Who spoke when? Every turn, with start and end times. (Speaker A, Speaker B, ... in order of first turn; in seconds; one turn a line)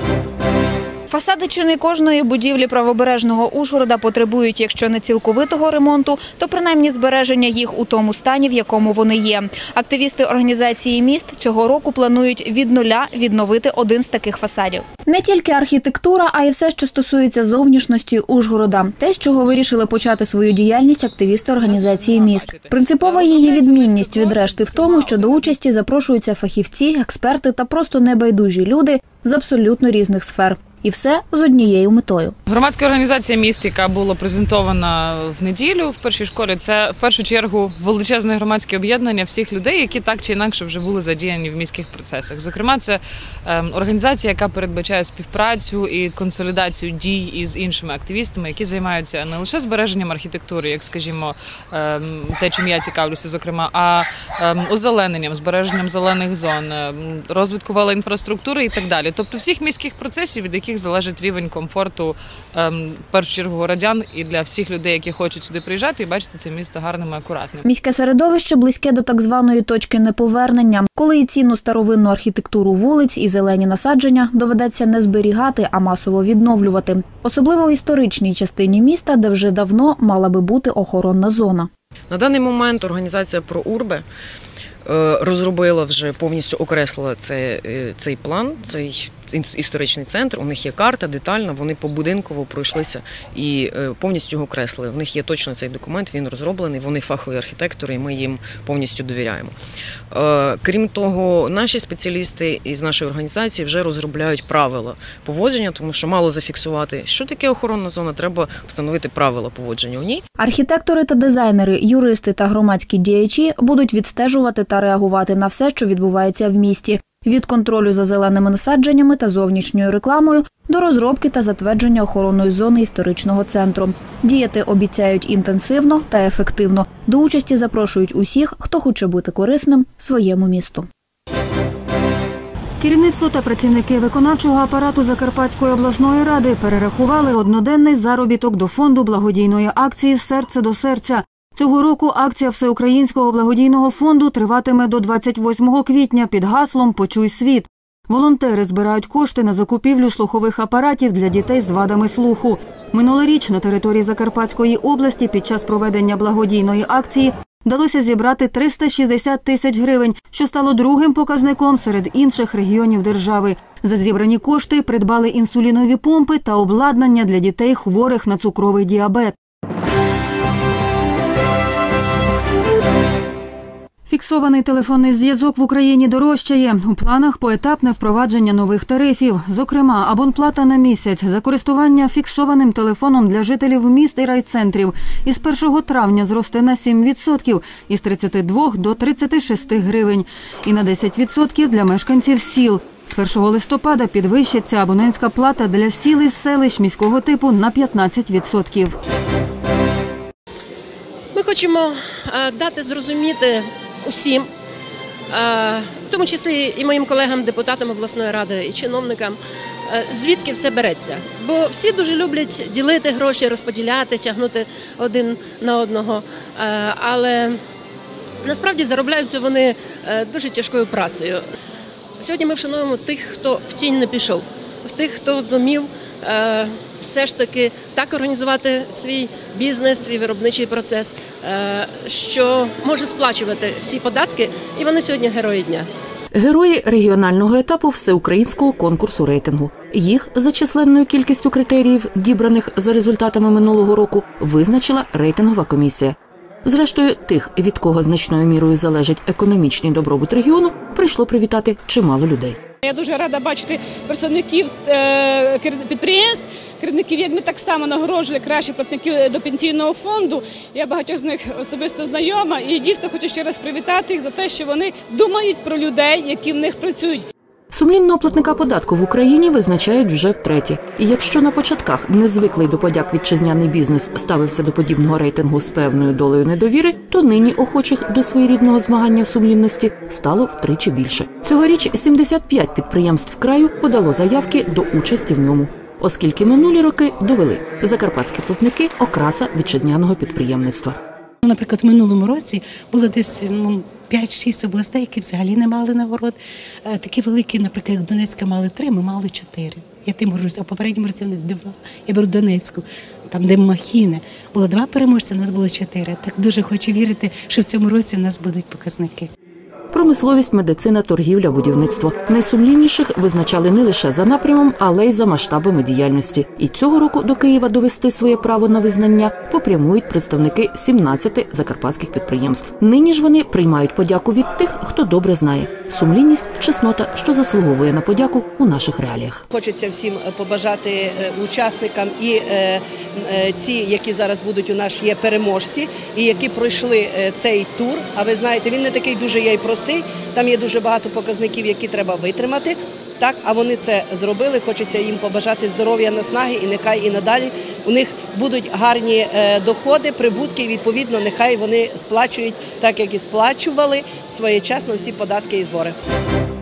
Speaker A: 1.1-32.4
Speaker B: 21.5-25.5
Speaker B: 32.5-67.6
Speaker A: 67.7-81.7
Speaker C: 82.1-84.0
Speaker C: 84.8-99.5
Speaker C: 100.1-110.2
Speaker A: 110.4-130.9
Speaker D: 132.8-169.3
Speaker D: 174.1-198.9
Speaker E: 201.3-204.5
Speaker E: 205.3-217.6
Speaker E: 218.4-221.4
Speaker E: 222.2-235.9
Speaker F: 236.3-252.6
Speaker G: 252.8-267.2
Speaker F: 267.7-291.0
Speaker H: 291.4-296.3
Speaker H: 296.9-309.3
Speaker F: 309.9-329.4
Speaker I: 329.5-355.9